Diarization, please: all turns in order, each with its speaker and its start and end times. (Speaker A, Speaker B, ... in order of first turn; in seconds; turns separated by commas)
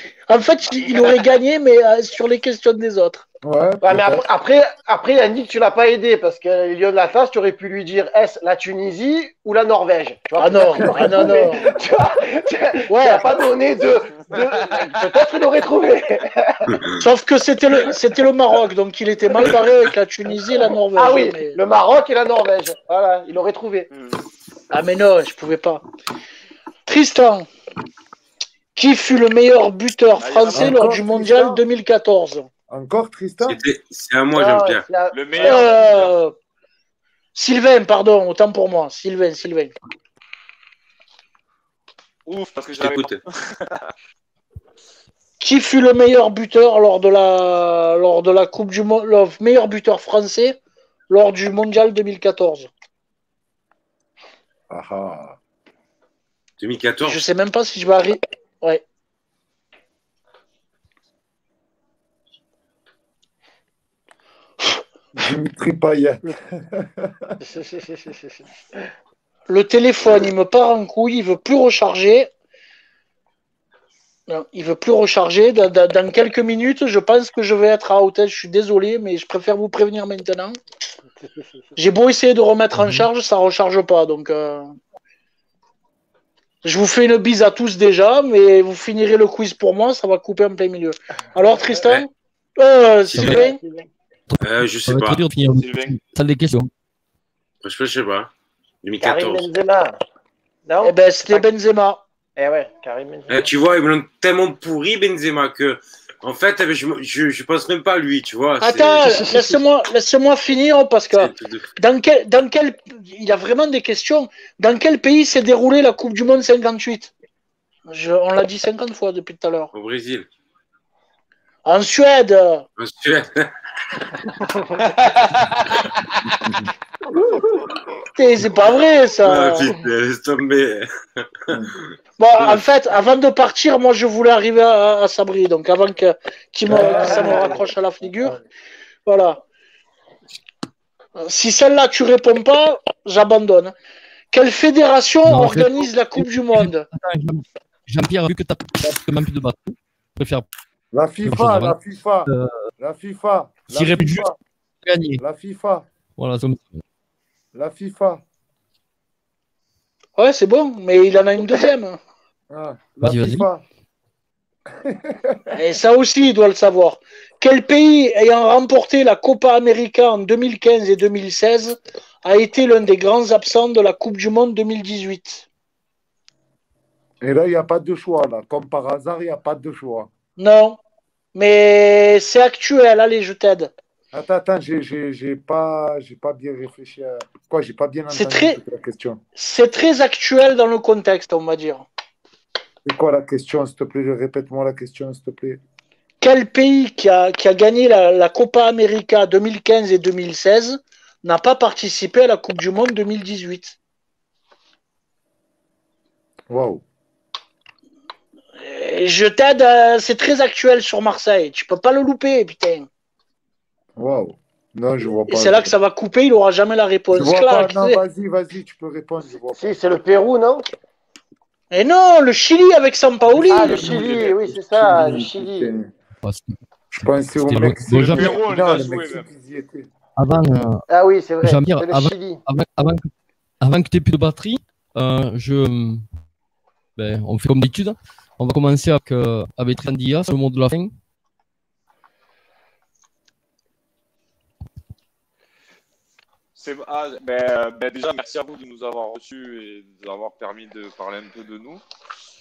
Speaker A: 0.3-3.2, Speaker B: 3.4-4.2, Speaker C: 3.8-16.7, Speaker A: 10.4-11.7, Speaker B: 10.8-11.7, Speaker A: 12.9-13.2, Speaker A: 16.9-21.6, Speaker C: 20.5-23.9, Speaker D: 23.9-24.2, Speaker A: 24.7-25.8, Speaker A: 26.9-27.5, Speaker A: 28.7-32.5, Speaker D: 30.2-30.9, Speaker B: 30.5-31.6, Speaker B: 32.7-33.6, Speaker E: 33.4-34.9, Speaker C: 34.3-36.1, Speaker D: 35.1-36.1, Speaker A: 35.4-36.3, Speaker A: 37.3-39.7, Speaker D: 42.3-43.8, Speaker E: 42.8-43.2, Speaker A: 45.4-50.6, Speaker A: 51.1-52.7, Speaker B: 54.7-55.4, Speaker E: 56.6-57.2, Speaker A: 57.0-58.8, Speaker B: 65.1-67.3, Speaker C: 67.4-68.8, Speaker A: 69.5-72.3, Speaker A: 74.3-80.6, Speaker C: 81.2-81.6, Speaker A: 81.8-84.7, Speaker F: 82.7-83.0, Speaker A: 86.6-93.6, Speaker E: 93.1-93.4, Speaker C: 93.2-93.9, Speaker F: 94.3-96.7, Speaker E: 94.4-95.3, Speaker D: 95.5-96.0, Speaker E: 97.6-98.3, Speaker E: 98.8-99.5, Speaker C: 99.0-100.0, Speaker C: 100.7-101.4, Speaker A: 100.8-102.0, Speaker C: 102.4-103.4, Speaker E: 103.3-109.1, Speaker A: 108.6-117.1, Speaker C: 109.0-109.6, Speaker E: 111.1-111.7, Speaker A: 117.9-119.7, Speaker E: 119.7-120.3, Speaker A: 121.6-122.6, Speaker E: 122.8-123.5, Speaker C: 124.5-124.9, Speaker D: 124.9-125.8, Speaker A: 128.2-129.7, Speaker E: 129.2-131.9, Speaker A: 132.2-138.4, Speaker B: 136.7-137.4, Speaker C: 136.7-137.6, Speaker A: 139.1-139.4, Speaker A: 141.2-143.7, Speaker A: 144.3-146.9, Speaker F: 145.2-150.4, Speaker B: 150.9-154.4, Speaker F: 151.2-151.8, Speaker F: 152.3-152.7, Speaker F: 153.7-154.2, Speaker F: 154.8-155.2, Speaker B: 155.2-155.8, Speaker F: 156.2-156.8, Speaker B: 157.5-158.2, Speaker A: 160.2-162.0, Speaker B: 162.5-163.6, Speaker F: 163.0-163.4, Speaker B: 164.8-165.5, Speaker A: 165.5-175.4, Speaker B: 177.2-180.1, Speaker A: 180.4-180.8, Speaker A: 181.3-183.7, Speaker B: 184.1-189.2, Speaker A: 188.1-188.6, Speaker A: 189.4-191.9, Speaker B: 192.8-195.6, Speaker A: 196.2-203.8, Speaker B: 206.5-206.8, Speaker A: 208.6-212.9, Speaker B: 213.9-215.7, Speaker A: 215.3-218.0, Speaker B: 217.1-219.8, Speaker C: 219.5-220.7, Speaker A: 221.7-223.8, Speaker C: 223.5-225.7, Speaker D: 223.5-224.4, Speaker B: 224.5-225.9, Speaker F: 226.2-226.5, Speaker B: 226.9-229.9, Speaker F: 227.3-228.3, Speaker D: 227.9-229.2, Speaker F: 230.2-230.8, Speaker C: 230.9-232.4, Speaker F: 231.4-233.1, Speaker F: 233.6-236.0, Speaker F: 236.9-240.9, Speaker D: 246.6-251.8